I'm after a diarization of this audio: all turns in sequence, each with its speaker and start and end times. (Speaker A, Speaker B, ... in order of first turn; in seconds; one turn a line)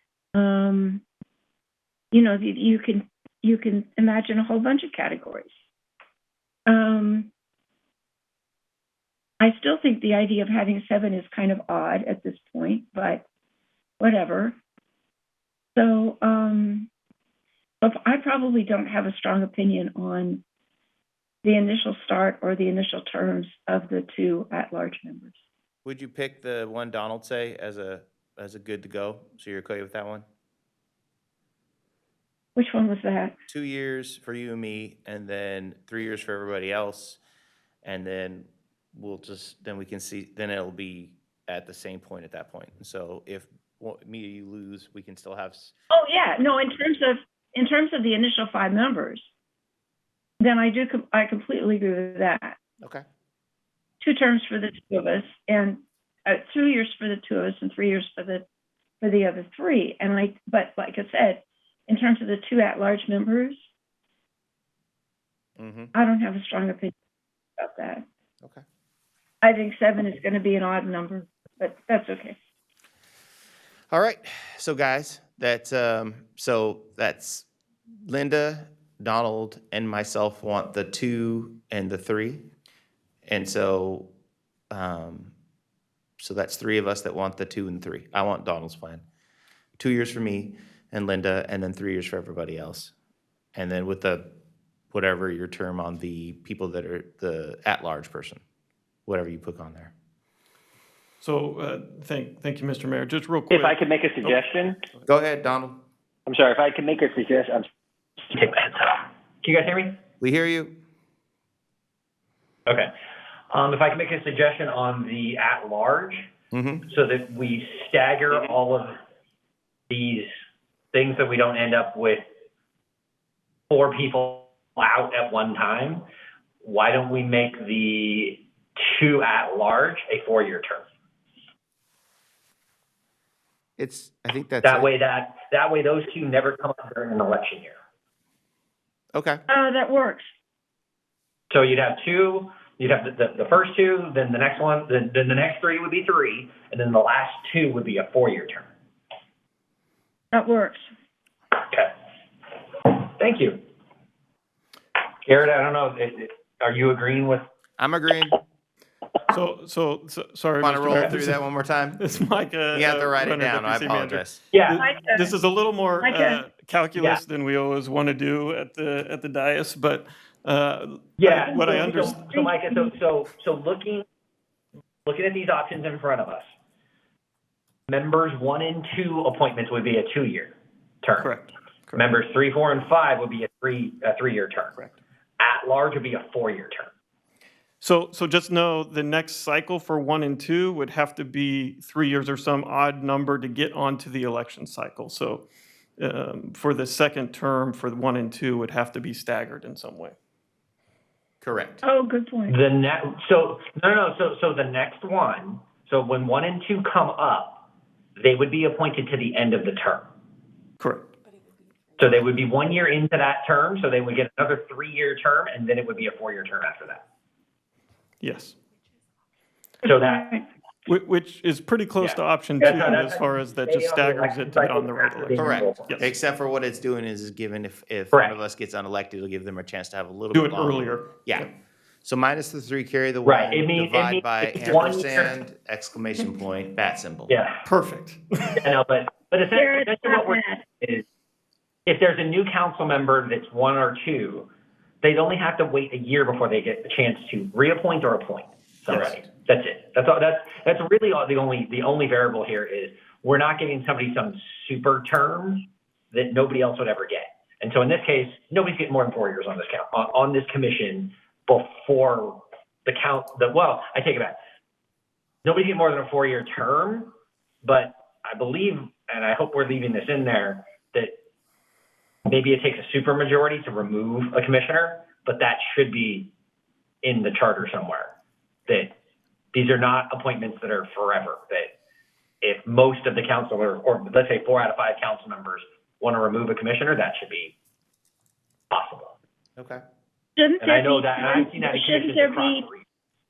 Speaker A: 0.3-1.0
Speaker A: 2.1-5.5
Speaker A: 6.7-7.3
Speaker A: 9.4-13.2
Speaker A: 14.0-14.6
Speaker A: 15.7-16.9
Speaker A: 17.8-20.4
Speaker A: 21.4-25.4
Speaker B: 25.8-30.2
Speaker A: 32.5-33.4
Speaker B: 33.5-37.2
Speaker B: 37.8-45.7
Speaker A: 45.9-49.3
Speaker A: 50.4-52.6
Speaker A: 54.0-58.5
Speaker A: 59.0-63.7
Speaker B: 65.6-65.9
Speaker A: 65.9-66.9
Speaker A: 67.6-68.0
Speaker A: 69.4-72.3
Speaker B: 73.9-77.5
Speaker B: 78.0-82.5
Speaker B: 83.2-84.1
Speaker B: 84.7-85.3
Speaker B: 86.2-89.0
Speaker B: 89.8-92.9
Speaker B: 93.5-94.3
Speaker B: 94.9-98.4
Speaker B: 99.0-99.9
Speaker C: 101.2-104.4
Speaker D: 103.5-104.9
Speaker B: 105.0-105.8
Speaker D: 106.2-107.7
Speaker D: 108.2-110.0
Speaker B: 110.2-110.8
Speaker D: 113.5-116.3
Speaker B: 116.5-116.8
Speaker D: 116.9-119.0
Speaker D: 119.9-120.3
Speaker D: 120.9-122.2
Speaker D: 123.7-126.0
Speaker D: 126.6-130.8
Speaker B: 133.8-134.9
Speaker D: 134.6-137.8
Speaker B: 139.1-139.4
Speaker A: 139.5-140.3
Speaker D: 141.5-148.7
Speaker A: 150.3-150.8
Speaker D: 151.6-151.9
Speaker D: 152.8-153.6
Speaker D: 155.2-157.4
Speaker B: 157.8-158.4
Speaker C: 159.3-161.4
Speaker B: 160.6-162.0
Speaker C: 162.0-172.2
Speaker B: 162.7-164.4
Speaker D: 164.5-164.8
Speaker A: 164.8-165.3
Speaker A: 166.0-166.4
Speaker D: 171.2-174.0
Speaker A: 171.3-172.9
Speaker D: 175.1-176.5
Speaker D: 177.9-181.3
Speaker C: 181.2-182.1
Speaker D: 181.9-184.8
Speaker D: 185.4-186.9
Speaker C: 187.8-195.4
Speaker C: 196.0-200.2
Speaker B: 201.4-201.8
Speaker A: 201.8-202.6
Speaker D: 202.5-207.6
Speaker D: 208.2-210.1
Speaker C: 210.8-211.1
Speaker D: 212.0-217.0
Speaker C: 218.2-218.6
Speaker D: 219.8-220.3
Speaker A: 219.9-220.4
Speaker C: 220.8-226.1
Speaker D: 222.0-225.9
Speaker B: 225.3-231.5
Speaker C: 230.3-231.5
Speaker B: 232.0-237.3
Speaker D: 233.2-235.3
Speaker D: 237.3-237.6
Speaker C: 237.6-238.6
Speaker D: 238.6-241.1
Speaker A: 239.5-240.6
Speaker D: 241.8-244.5
Speaker D: 245.0-264.4
Speaker B: 248.9-249.2
Speaker D: 265.4-271.1
Speaker D: 272.2-276.3
Speaker D: 277.0-278.1
Speaker D: 278.7-278.9
Speaker D: 279.5-281.7
Speaker D: 282.4-287.5
Speaker D: 288.7-289.2
Speaker B: 289.6-289.8
Speaker A: 290.4-292.7
Speaker D: 290.6-292.8